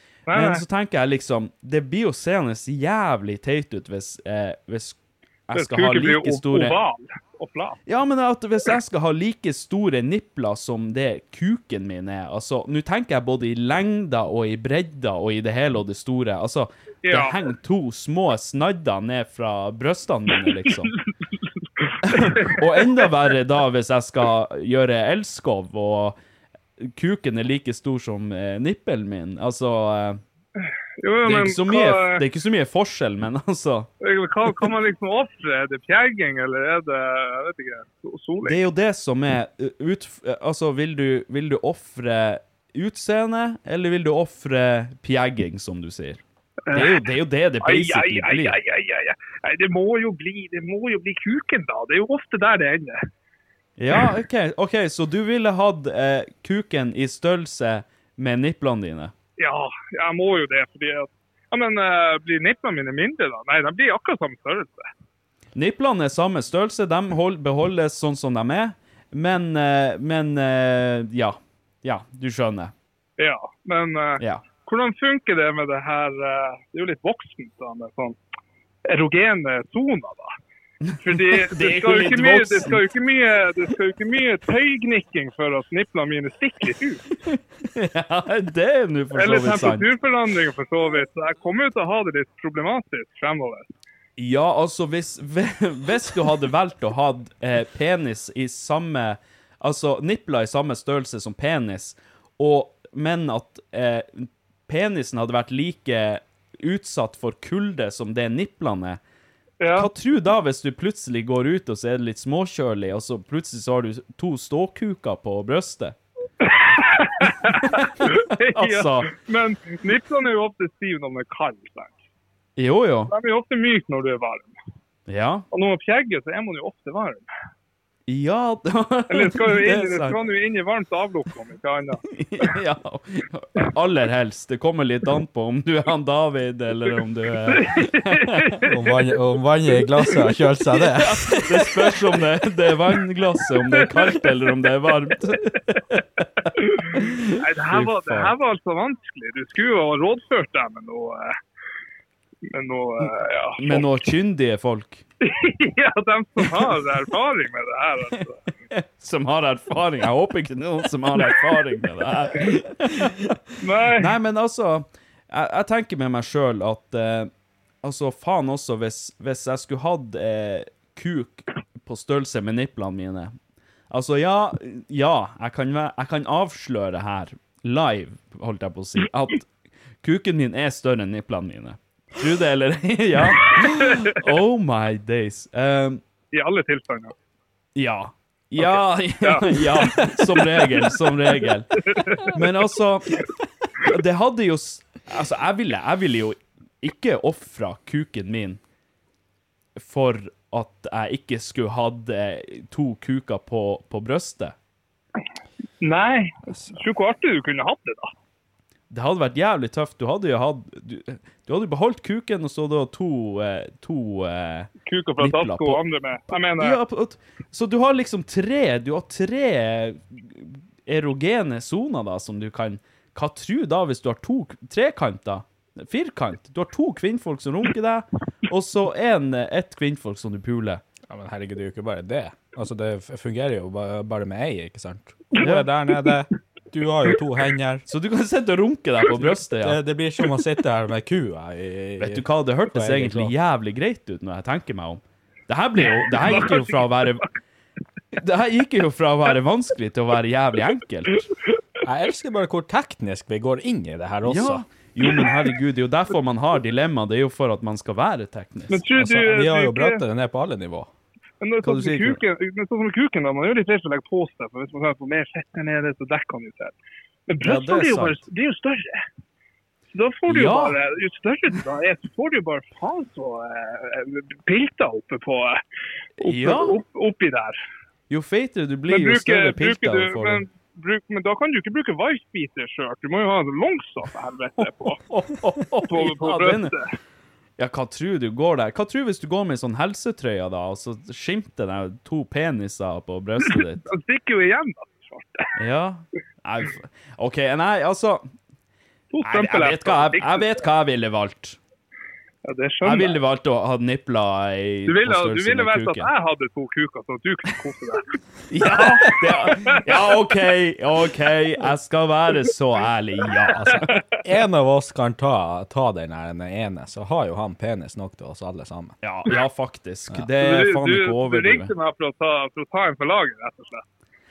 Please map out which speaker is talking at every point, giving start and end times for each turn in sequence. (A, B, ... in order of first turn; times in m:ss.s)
0:00.3-0:00.6 A
0:00.3-0:06.8 B
0:05.5-0:07.8 A
0:07.8-0:20.9 B
0:17.0-0:17.4 A
0:22.0-0:26.2 B
0:26.8-0:30.2 B
0:31.0-0:32.2 A
0:31.2-0:33.9 B
0:34.0-0:38.6 A
0:38.4-0:46.2 B
0:46.7-0:47.0 A
0:46.7-0:48.6 B
0:47.6-0:53.0 A
0:53.8-0:59.1 B
0:59.4-1:04.9 A
1:05.5-1:12.7 B
1:13.2-1:18.2 A
1:14.2-1:14.4 B
1:18.9-1:20.3 A
1:20.9-1:22.8 B
1:21.0-1:27.0 A
1:27.7-1:29.9 B
1:29.2-1:33.7 A
1:34.2-1:49.0 B
1:49.6-1:49.9 A
1:49.7-1:56.0 B
1:56.4-2:01.9 A
1:57.3-1:59.1 B
2:02.6-2:03.1 B
2:03.1-2:04.6 A
2:05.1-2:05.4 B
2:05.5-2:07.3 A
2:08.1-2:10.2 B
2:09.1-2:12.0 A
2:12.1-2:18.6 B
2:17.5-2:18.9 A
2:18.7-2:21.7 C
2:21.0-2:28.3 B
2:27.4-2:31.3 A
2:32.5-2:33.9 A
2:33.6-2:35.0 B
2:35.2-2:38.4 A
2:38.7-2:43.4 B
2:43.6-2:44.1 A
2:43.9-2:47.3 B
2:47.8-2:53.3 B
2:53.9-2:59.5 B
3:00.0-3:06.0 B
3:03.4-3:04.2 A
3:06.3-3:07.1 A
3:07.7-3:13.2 B
3:08.6-3:11.0 A
3:11.9-3:12.4 A
3:13.8-3:18.6 B
3:19.8-3:24.5 B
3:25.8-3:28.1 A
3:28.9-3:50.8 B
3:34.8-3:36.8 A
3:51.1-3:57.8 C
3:55.4-3:55.7 B
3:57.9-3:59.8 B
3:59.6-4:03.3 C
4:02.0-4:07.3 B
4:05.8-4:07.0 A
4:08.2-4:11.3 B
4:11.8-4:14.6 C
4:14.2-4:18.8 B
4:18.7-4:20.0 A
4:18.9-4:20.9 C
4:21.4-4:26.7 A
4:21.6-4:22.2 B
4:27.3-4:29.0 A
4:27.4-4:28.2 B
4:29.9-4:35.6 A
4:30.3-4:30.8 B
4:36.2-4:36.8 B
4:36.2-4:37.6 A
4:38.1-4:40.4 B
4:38.9-4:45.0 A
4:44.6-4:46.8 B
4:45.9-4:46.9 A
4:47.6-4:53.8 B
4:53.8-4:55.5 A
4:55.6-4:58.3 B
4:59.1-5:00.5 A
4:59.2-5:01.6 B
5:02.5-5:03.1 A
5:02.8-5:06.1 B
5:04.9-5:08.1 A
5:08.5-5:14.0 B
5:08.6-5:10.0 A
5:13.6-5:19.0 C
5:19.0-5:21.7 B
5:20.3-5:23.8 A